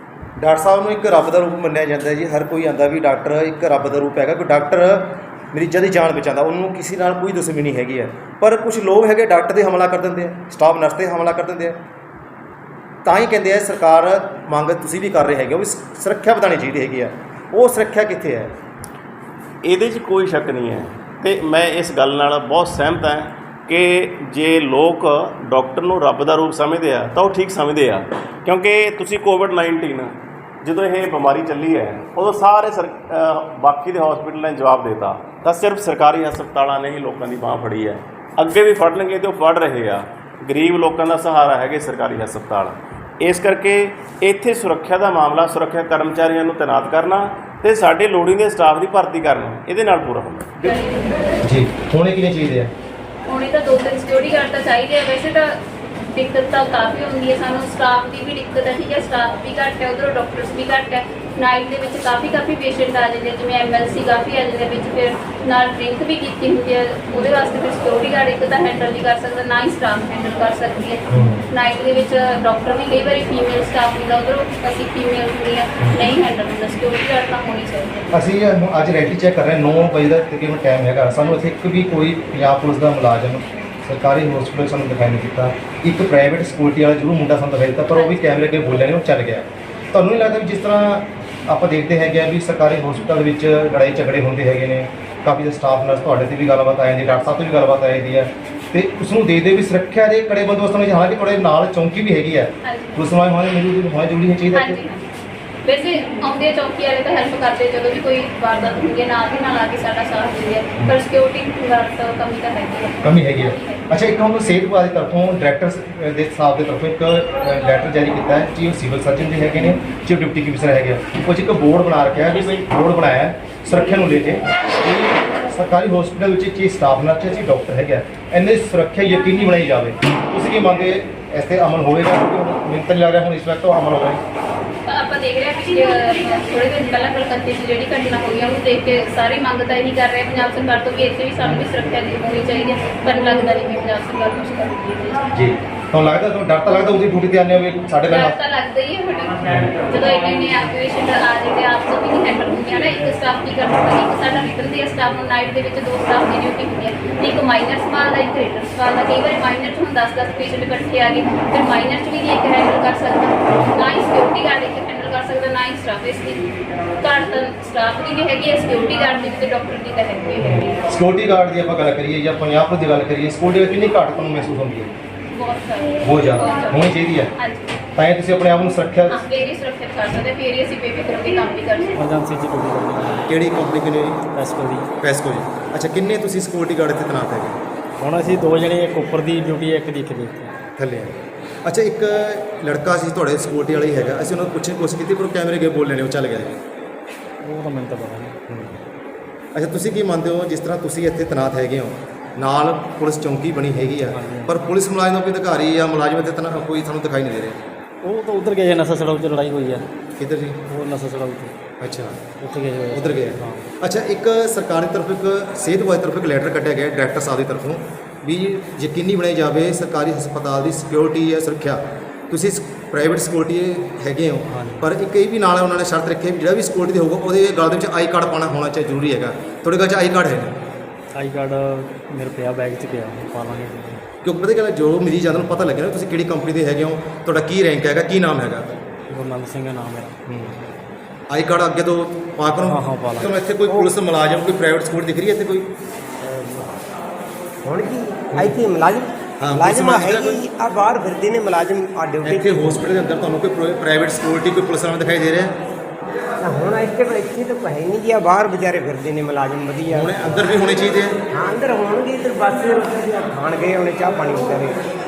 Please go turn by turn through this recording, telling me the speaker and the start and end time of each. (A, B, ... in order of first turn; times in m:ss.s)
0:00.4-0:11.8 A
0:13.0-0:18.5 A
0:19.6-0:50.7 B
0:50.6-0:51.2 C
0:51.4-0:52.7 A
0:53.3-0:55.6 C
0:56.1-1:18.1 C
1:11.1-1:11.4 A
1:18.1-1:44.8 A
1:27.9-1:28.5 C
1:42.6-1:43.1 C
1:44.5-1:45.0 C
1:45.6-1:53.8 C
1:53.0-2:14.2 A
2:14.8-2:25.2 C
2:25.3-2:28.4 A
2:28.1-2:50.8 C
2:29.4-2:29.7 A
2:43.5-2:43.7 A
2:50.4-2:54.9 A
2:55.3-2:57.8 C
2:56.0-2:57.3 A
2:58.0-2:59.2 A
2:59.1-3:02.0 C
3:02.0-3:03.2 D
3:03.3-3:04.2 A
3:04.3-3:04.9 D
3:05.0-3:07.6 A
3:08.0-3:10.5 D
3:10.8-3:16.6 A
3:17.4-3:18.4 D
3:18.5-3:18.8 A
3:19.5-3:27.6 A
3:24.0-3:24.5 D
3:28.0-3:29.8 D
3:30.2-3:30.6 A
3:30.7-3:31.5 D
3:31.8-3:32.3 A
3:32.4-3:33.7 D
3:32.9-3:50.6 A
3:44.5-3:44.8 D
3:51.1-3:54.0 D
3:54.2-3:58.8 A
3:59.1-4:00.2 D
4:00.3-4:00.6 A
4:01.3-4:05.7 A
4:02.6-4:03.3 D
4:06.2-4:06.7 E
4:07.6-4:12.8 E
4:09.4-4:10.4 A
4:12.2-4:15.6 A
4:16.4-4:20.4 E
4:19.9-4:21.2 A
4:21.3-4:24.8 E